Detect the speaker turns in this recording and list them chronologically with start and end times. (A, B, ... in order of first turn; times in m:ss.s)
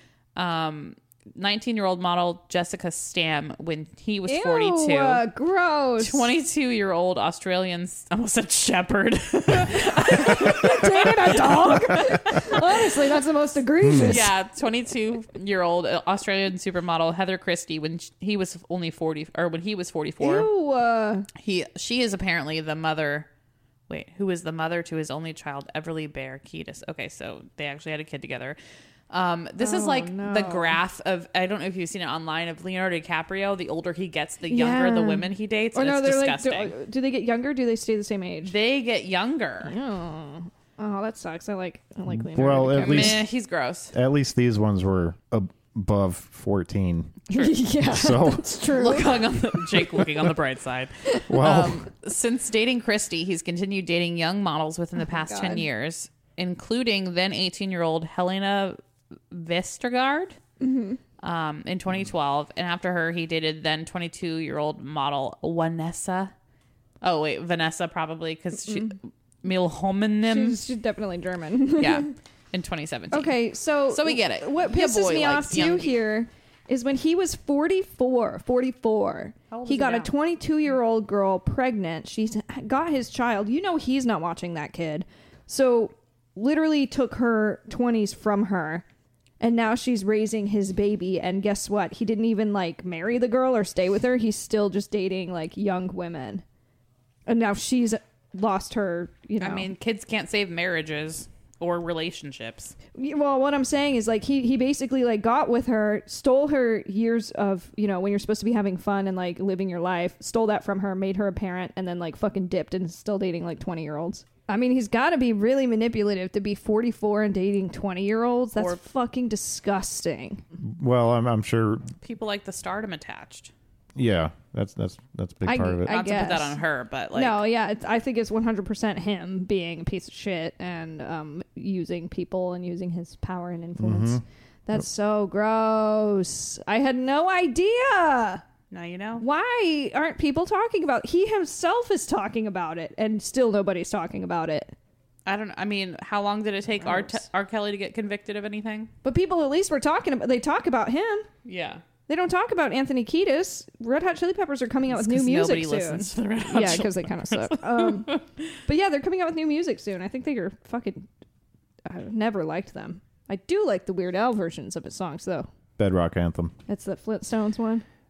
0:00.4-0:05.2 A
0:04.3-0:06.3 B
0:06.0-0:12.8 A
0:10.2-0:14.3 B
0:13.8-0:14.2 C
0:14.0-0:20.5 A
0:20.2-0:21.3 B
0:21.4-0:23.3 A
0:23.9-0:28.6 A
0:29.1-0:36.7 A
0:29.6-0:30.8 B
0:34.5-0:38.6 B
0:38.4-0:39.7 A
0:39.6-0:43.2 B
0:42.1-0:43.3 C
0:42.8-0:43.9 A
0:43.9-0:48.6 C
0:47.3-0:49.2 B
0:48.7-0:58.8 A
0:51.3-0:51.9 C
0:55.0-0:55.6 B
0:59.3-1:00.4 A
1:00.6-1:01.0 B
1:01.2-1:06.3 A
1:07.0-1:10.6 A
1:10.2-1:12.1 B
1:11.8-1:16.0 A
1:13.1-1:28.8 B
1:19.5-1:20.1 A
1:29.4-1:36.4 B
1:37.3-1:39.7 B
1:39.4-1:42.8 A
1:43.0-2:00.4 B
2:00.6-2:01.9 C
2:02.0-2:03.5 A
2:04.0-2:05.9 C
2:05.5-2:06.6 B
2:05.9-2:07.4 A
2:07.1-2:18.4 B
2:13.8-2:14.2 C
2:18.7-2:19.2 A
2:19.2-2:24.7 B
2:25.3-2:28.9 A
2:26.8-2:27.2 B
2:29.0-2:31.3 B
2:31.4-2:31.8 A
2:32.1-2:41.1 B
2:34.9-2:38.4 A
2:41.9-2:45.5 B
2:45.8-2:46.6 C
2:46.7-2:47.8 B